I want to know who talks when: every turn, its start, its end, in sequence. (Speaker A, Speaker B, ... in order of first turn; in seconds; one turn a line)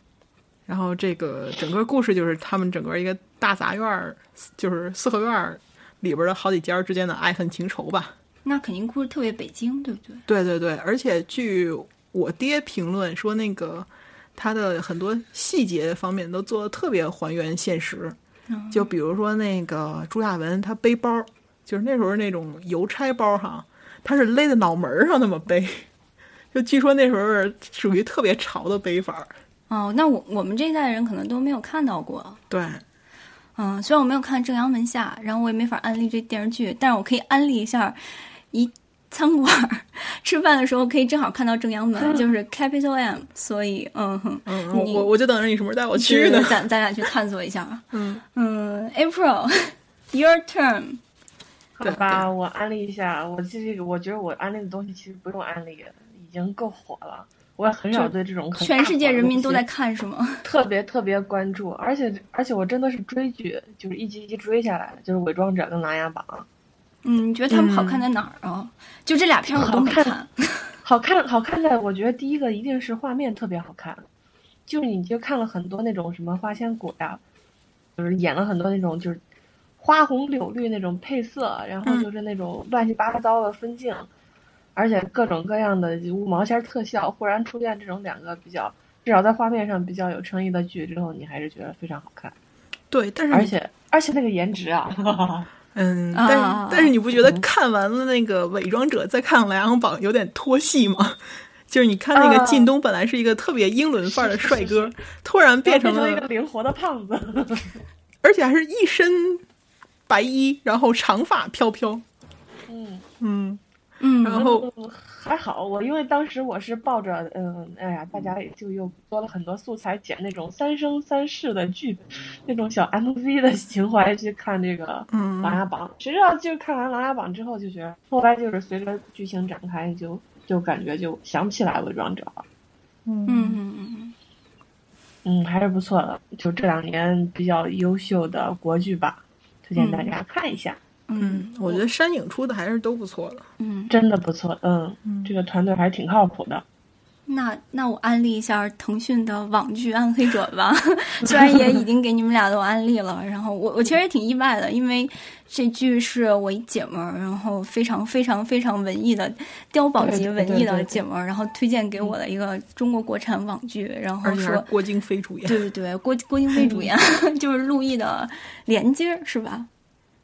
Speaker A: 0.7-8.2
Speaker B: 8.4-10.2
Speaker A: 10.3-18.2
Speaker B: 18.5-18.9
Speaker A: 18.7-25.9
Speaker A: 26.5-29.3
Speaker B: 29.7-32.4
Speaker A: 32.5-32.8
Speaker B: 33.6-38.0
Speaker B: 38.5-45.1
Speaker C: 42.0-42.2
Speaker A: 44.5-46.6
Speaker B: 46.0-51.0
Speaker A: 47.9-48.2
Speaker C: 51.8-59.6
Speaker A: 51.8-52.3
Speaker B: 57.9-60.4
Speaker C: 60.4-66.5
Speaker B: 67.0-70.7
Speaker A: 67.5-68.0
Speaker C: 69.5-70.2
Speaker C: 70.8-74.0
Speaker C: 74.7-77.2
Speaker C: 78.0-79.2
Speaker C: 79.8-84.1
Speaker A: 81.8-82.1
Speaker C: 84.8-92.3
Speaker A: 92.9-93.5
Speaker C: 93.3-95.5
Speaker A: 95.8-106.3
Speaker B: 96.2-97.0
Speaker C: 102.2-102.7
Speaker C: 104.0-105.0
Speaker C: 105.6-107.8
Speaker A: 108.2-109.4
Speaker A: 110.1-112.0
Speaker C: 112.7-113.1
Speaker A: 113.2-113.6
Speaker B: 114.0-114.5
Speaker A: 114.2-114.7
Speaker C: 114.3-132.4
Speaker A: 125.1-125.6
Speaker A: 133.1-133.6
Speaker B: 133.3-134.2
Speaker C: 135.2-140.8
Speaker B: 139.8-140.1
Speaker B: 141.1-141.8
Speaker A: 141.2-143.5
Speaker B: 143.6-143.9
Speaker C: 143.9-146.6
Speaker A: 145.1-145.3
Speaker B: 147.3-164.7
Speaker C: 151.4-151.6
Speaker C: 160.0-161.0
Speaker A: 164.2-165.6
Speaker B: 165.4-169.7
Speaker C: 166.6-166.9